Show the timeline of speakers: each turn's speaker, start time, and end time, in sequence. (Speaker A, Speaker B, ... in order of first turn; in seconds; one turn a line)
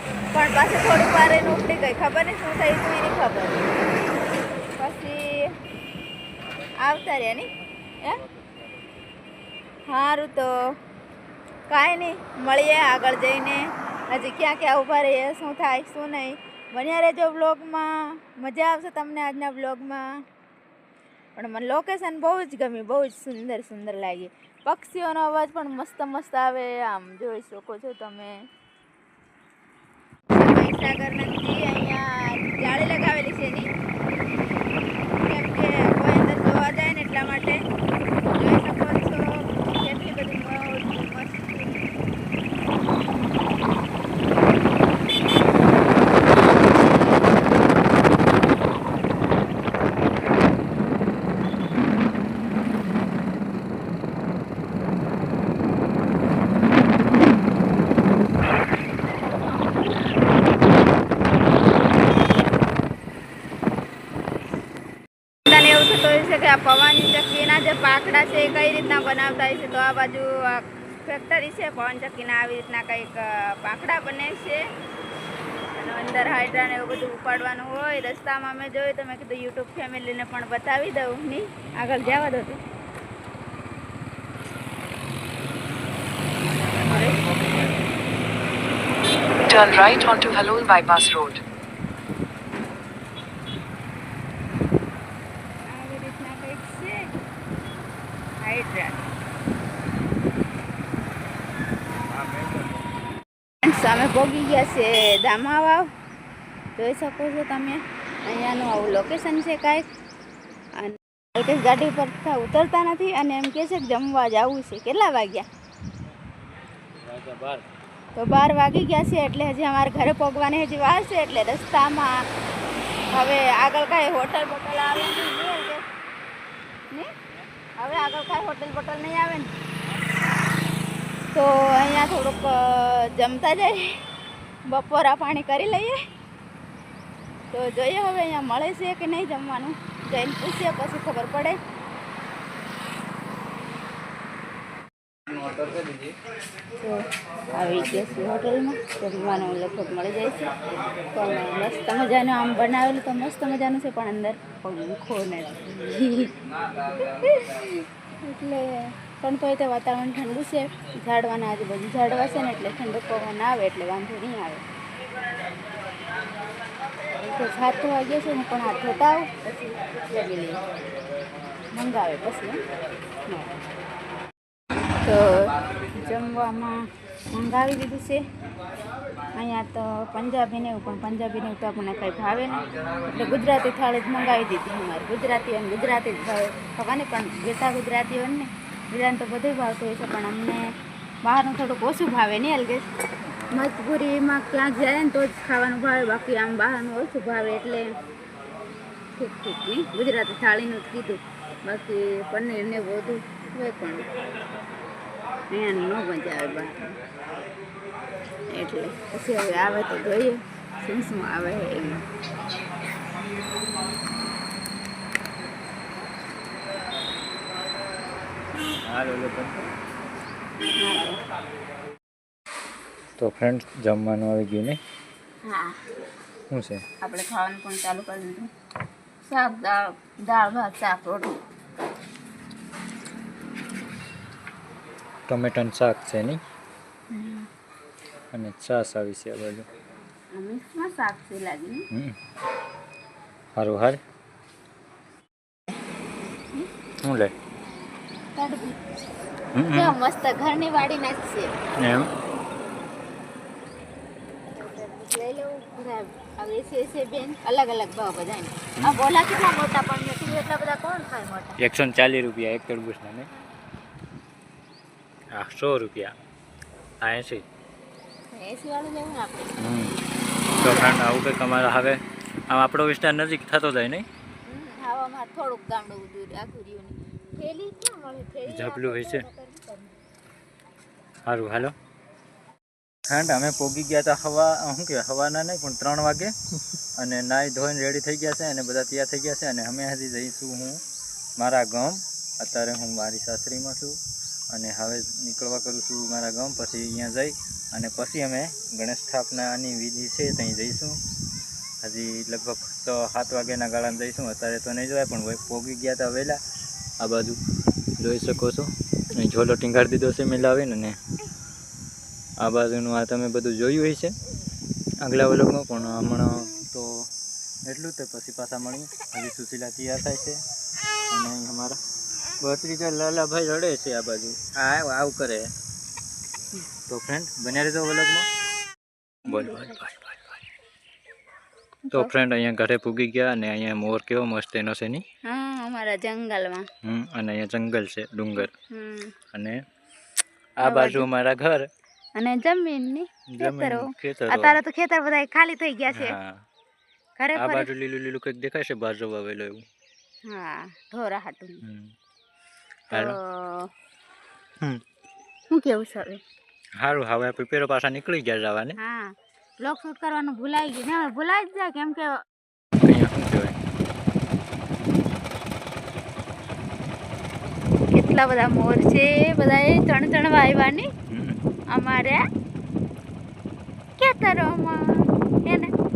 Speaker A: 0.3-3.8
Speaker A: 4.8-5.5
Speaker A: 6.8-7.5
Speaker B: 8.0-9.0
Speaker A: 9.9-10.7
Speaker A: 11.7-20.1
Speaker A: 21.4-28.4
Speaker A: 30.3-33.7
Speaker A: 35.2-37.6
Speaker A: 38.3-41.9
Speaker A: 65.5-74.6
Speaker A: 75.8-82.6
Speaker B: 86.5-87.9
Speaker A: 86.7-87.2
Speaker C: 89.5-91.4
Speaker A: 95.7-97.1
Speaker A: 98.4-99.0
Speaker B: 102.1-102.8
Speaker A: 103.6-105.9
Speaker A: 106.8-109.9
Speaker A: 110.8-115.5
Speaker B: 117.0-117.7
Speaker A: 118.2-122.2
Speaker A: 123.1-125.8
Speaker A: 127.8-129.5
Speaker A: 131.3-134.0
Speaker A: 134.7-136.0
Speaker A: 137.5-141.6
Speaker A: 147.5-150.5
Speaker A: 151.1-156.3
Speaker A: 156.8-164.6
Speaker A: 167.2-170.6
Speaker A: 171.7-172.6
Speaker A: 175.0-176.8
Speaker A: 177.3-178.2
Speaker A: 179.3-190.6
Speaker A: 191.2-192.9
Speaker A: 193.5-197.9
Speaker A: 199.2-204.1
Speaker A: 205.5-206.9
Speaker A: 208.5-212.0
Speaker B: 218.9-219.7
Speaker A: 220.8-221.2
Speaker B: 223.2-224.8
Speaker A: 225.4-225.8
Speaker B: 226.5-226.8
Speaker A: 227.0-228.5
Speaker A: 229.3-231.4
Speaker B: 235.3-236.4
Speaker A: 237.1-237.5
Speaker B: 238.3-239.7
Speaker A: 240.3-241.8
Speaker B: 243.6-244.0
Speaker B: 247.0-247.3
Speaker A: 248.3-248.8
Speaker B: 249.6-249.9
Speaker A: 249.7-251.5
Speaker B: 251.8-252.1
Speaker A: 254.5-261.6
Speaker B: 258.8-259.0
Speaker B: 261.6-263.3
Speaker B: 265.4-266.1
Speaker B: 267.0-267.4
Speaker A: 268.3-269.7
Speaker B: 269.6-270.0
Speaker A: 270.6-271.0
Speaker B: 270.6-274.1
Speaker A: 274.5-280.0
Speaker B: 278.5-279.2
Speaker B: 281.3-281.7
Speaker B: 283.1-286.3
Speaker B: 287.0-290.8
Speaker B: 291.4-294.0
Speaker B: 294.5-301.0
Speaker B: 301.8-306.4
Speaker B: 307.0-307.4
Speaker B: 308.0-311.0
Speaker B: 312.4-314.1
Speaker B: 315.0-317.1
Speaker B: 317.7-320.4
Speaker B: 321.1-321.8
Speaker B: 322.4-325.5
Speaker B: 326.9-328.3
Speaker B: 329.2-330.4
Speaker A: 329.3-329.7
Speaker B: 331.9-335.0
Speaker A: 335.3-336.7
Speaker B: 336.8-338.5
Speaker A: 338.4-339.1
Speaker B: 339.3-339.6
Speaker B: 340.6-341.7
Speaker A: 340.6-341.1
Speaker A: 342.2-346.2
Speaker B: 343.3-344.6
Speaker B: 345.9-346.4
Speaker A: 347.2-347.7
Speaker B: 347.4-349.6
Speaker A: 350.3-351.6
Speaker B: 351.6-351.9
Speaker B: 352.9-353.2
Speaker A: 352.9-353.7
Speaker A: 355.5-356.2
Speaker B: 356.8-358.8
Speaker A: 358.8-362.2
Speaker B: 362.8-363.6
Speaker A: 367.9-370.9
Speaker B: 371.1-371.4
Speaker A: 371.7-372.2
Speaker A: 374.0-375.7